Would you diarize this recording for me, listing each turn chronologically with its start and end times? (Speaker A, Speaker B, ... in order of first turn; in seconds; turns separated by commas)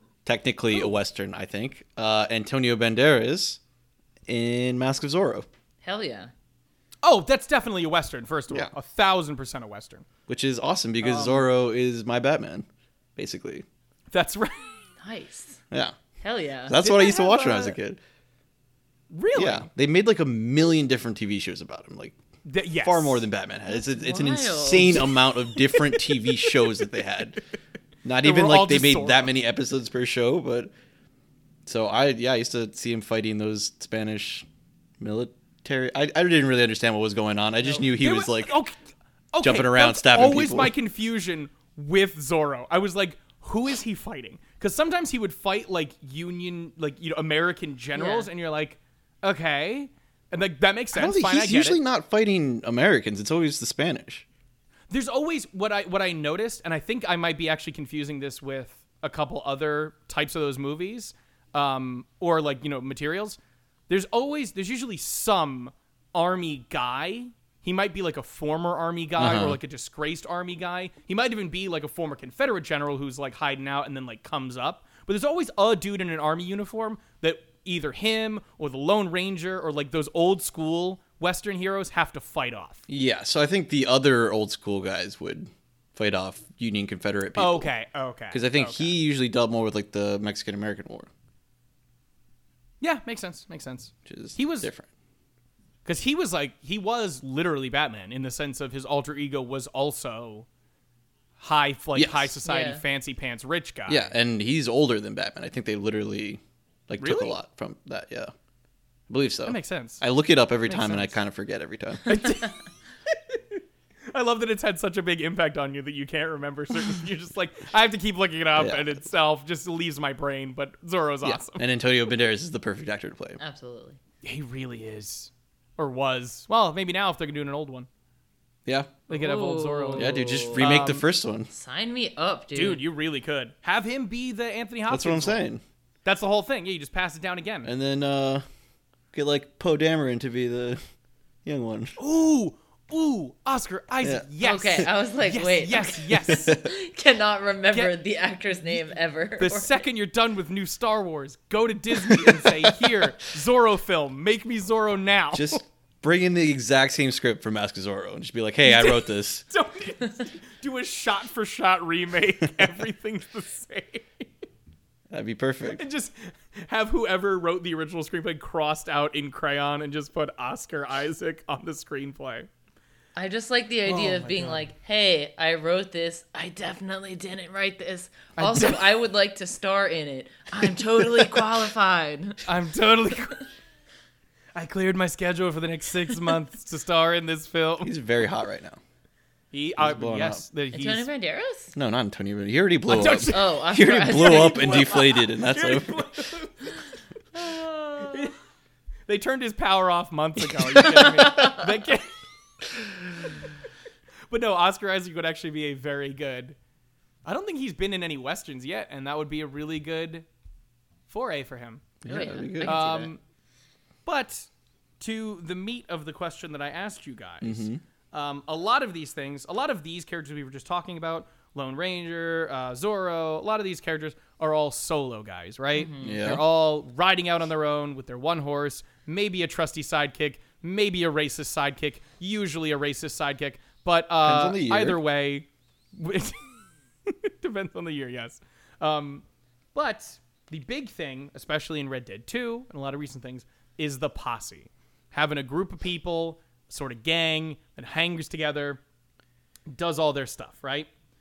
Speaker A: 0.2-3.6, Speaker A: 4.3-5.5, Speaker B: 5.8-6.3, Speaker C: 7.0-10.0, Speaker A: 10.3-13.6, Speaker C: 11.0-11.4, Speaker C: 14.1-14.7, Speaker B: 15.0-15.6, Speaker A: 15.7-15.9, Speaker B: 16.2-16.8, Speaker A: 16.7-18.0, Speaker C: 16.8-17.8, Speaker C: 19.1-19.7, Speaker A: 19.3-22.1, Speaker C: 22.4-23.2, Speaker A: 22.8-27.4, Speaker B: 23.7-25.2, Speaker A: 28.0-30.7, Speaker C: 28.2-29.3, Speaker A: 31.6-34.5, Speaker A: 35.0-38.5, Speaker C: 37.9-38.8, Speaker C: 39.3-51.8, Speaker A: 39.4-40.7, Speaker B: 47.9-48.3, Speaker A: 50.9-54.2, Speaker C: 54.9-63.4, Speaker C: 63.9-82.8, Speaker A: 69.2-69.6, Speaker A: 82.9-87.7, Speaker C: 87.3-88.9, Speaker A: 88.3-91.1, Speaker C: 92.8-94.7, Speaker A: 94.0-94.9, Speaker C: 95.8-100.5, Speaker C: 101.4-104.1, Speaker A: 101.9-102.3, Speaker B: 102.4-102.8, Speaker A: 103.9-108.3, Speaker C: 107.0-107.3, Speaker A: 109.1-112.3, Speaker C: 109.5-110.0, Speaker C: 110.6-111.2, Speaker C: 112.0-112.6, Speaker C: 113.1-113.6, Speaker C: 114.1-121.6, Speaker A: 118.5-119.0, Speaker A: 121.2-123.4, Speaker B: 123.4-124.0, Speaker C: 124.2-127.9, Speaker A: 128.7-128.9, Speaker C: 129.1-131.0, Speaker B: 129.1-130.7, Speaker A: 129.9-131.5, Speaker B: 131.5-132.8, Speaker C: 132.5-135.4, Speaker A: 134.9-135.6, Speaker C: 136.0-137.7, Speaker A: 137.6-138.4, Speaker A: 139.1-140.8, Speaker A: 141.4-141.9, Speaker C: 142.0-146.5, Speaker B: 144.4-149.8, Speaker A: 146.1-146.6, Speaker C: 149.4-155.6, Speaker A: 152.1-152.5, Speaker A: 155.3-159.4, Speaker C: 158.6-164.3, Speaker A: 165.1-165.8, Speaker C: 165.7-172.5, Speaker B: 173.2-182.4, Speaker C: 173.8-174.6, Speaker C: 178.4-178.8, Speaker C: 182.4-183.4, Speaker C: 184.5-187.9, Speaker A: 187.8-188.8, Speaker C: 189.5-191.1, Speaker A: 189.8-190.4, Speaker B: 190.7-191.7, Speaker A: 191.7-196.1, Speaker C: 192.9-196.8, Speaker B: 193.0-195.0, Speaker C: 197.4-198.3, Speaker B: 197.4-198.3, Speaker C: 199.1-202.1, Speaker B: 200.8-201.7, Speaker C: 202.7-203.3, Speaker C: 204.3-206.6, Speaker C: 207.2-210.2, Speaker C: 211.1-211.9, Speaker A: 212.0-212.8, Speaker B: 212.1-213.1, Speaker C: 212.6-213.2, Speaker C: 214.1-214.5, Speaker C: 215.0-236.4, Speaker A: 217.4-217.8, Speaker B: 225.7-226.2, Speaker A: 226.0-226.4, Speaker A: 234.2-235.0, Speaker C: 237.1-239.2, Speaker C: 239.7-248.8, Speaker C: 249.7-250.9